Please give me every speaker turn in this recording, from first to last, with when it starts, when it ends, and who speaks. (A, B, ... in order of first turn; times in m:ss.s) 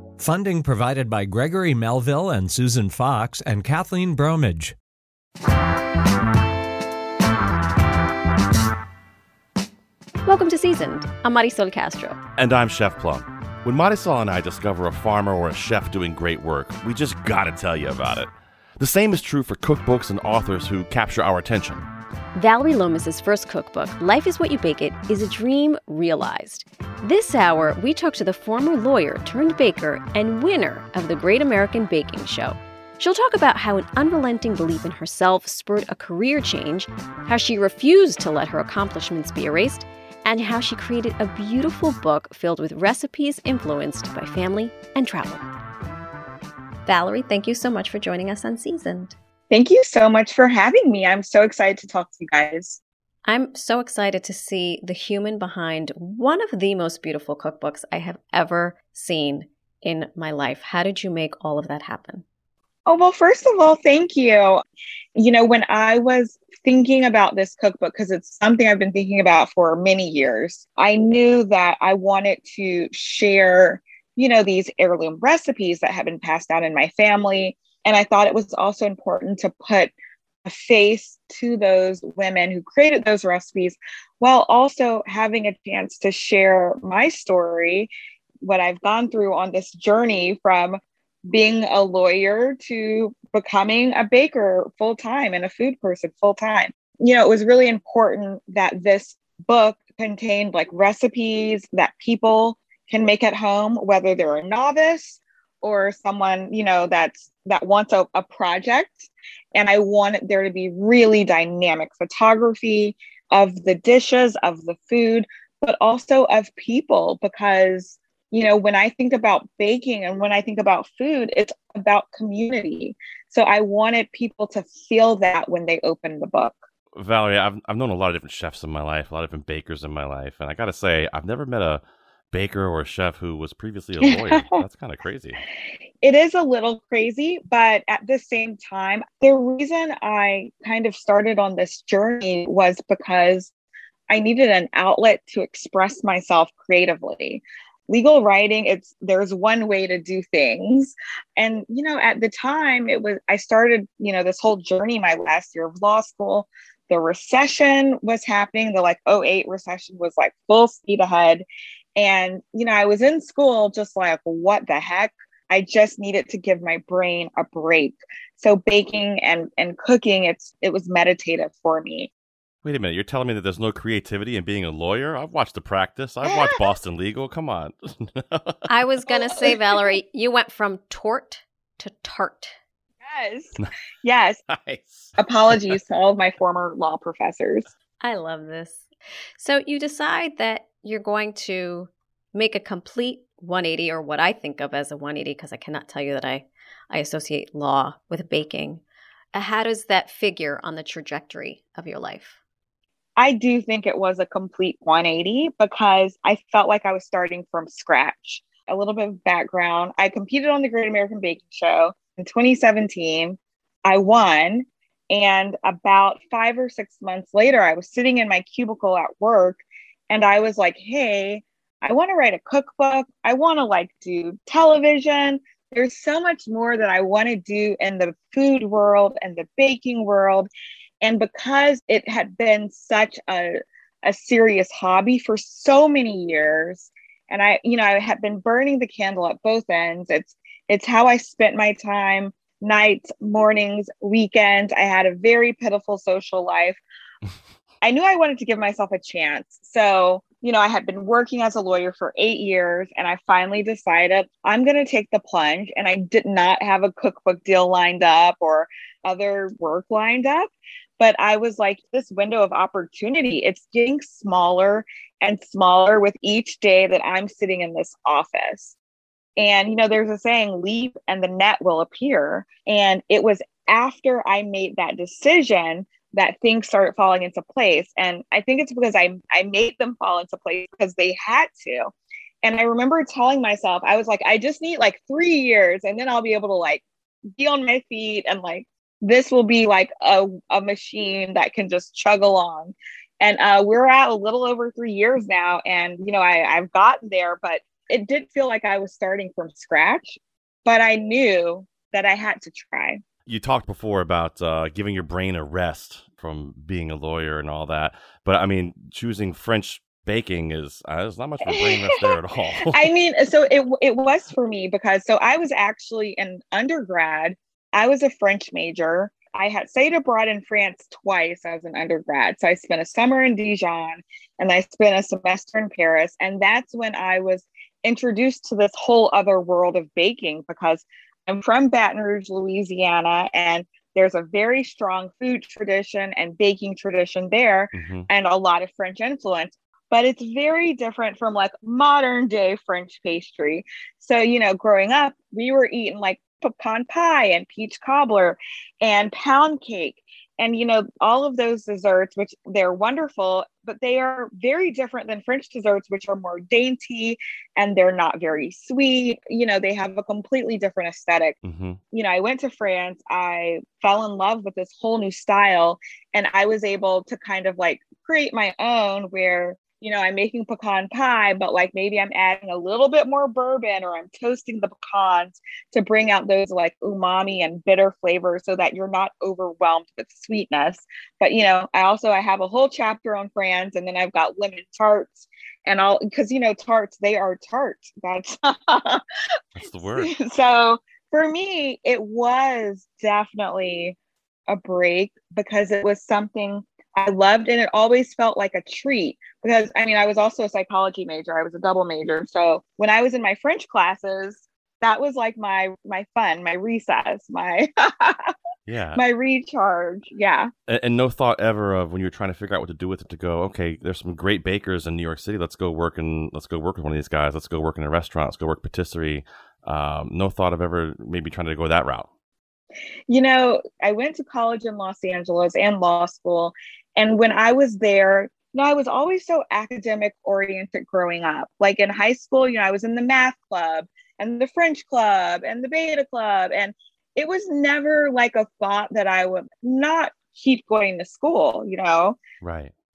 0:00.2-0:04.8 A
0:10.2-0:12.2 B
0:12.4-0:21.9 C
0:22.4-0:45.5 B
0:46.8-0:49.2 B
0:49.5-0:52.8 D
0:53.3-1:02.2 B
1:02.9-1:04.6 D
1:05.2-1:19.9 D
1:20.4-1:27.9 D
1:28.4-2:06.6 D
2:07.0-2:11.8 C
2:12.3-2:15.4 C
2:14.0-2:14.6 D
2:16.0-2:23.5 D
2:24.1-2:41.4 D
2:42.0-2:52.1 D
2:52.6-2:58.7 C
2:56.2-2:56.6 D
2:58.7-3:02.6 B
2:59.1-2:59.9 D
3:03.0-3:04.4 D
3:04.5-3:05.8 C
3:05.2-3:07.7 D
3:08.0-3:08.9 B
3:09.4-3:18.8 B
3:19.3-3:22.4 B
3:23.2-3:50.5 D
3:51.0-4:06.8 D
4:07.8-4:28.8 D
4:29.4-4:46.8 D
4:47.4-5:03.0 D
5:03.3-5:12.9 C
5:11.5-6:01.4 D
5:37.7-5:38.1 C
6:01.4-6:01.8 C
6:01.9-6:29.0 D
6:29.6-6:30.1 C
6:30.0-6:34.0 D
6:34.5-6:48.3 D
6:48.7-6:49.0 C
6:49.0-6:50.5 D
6:50.7-7:02.1 C
7:03.1-7:22.2 D
7:22.4-7:22.7 C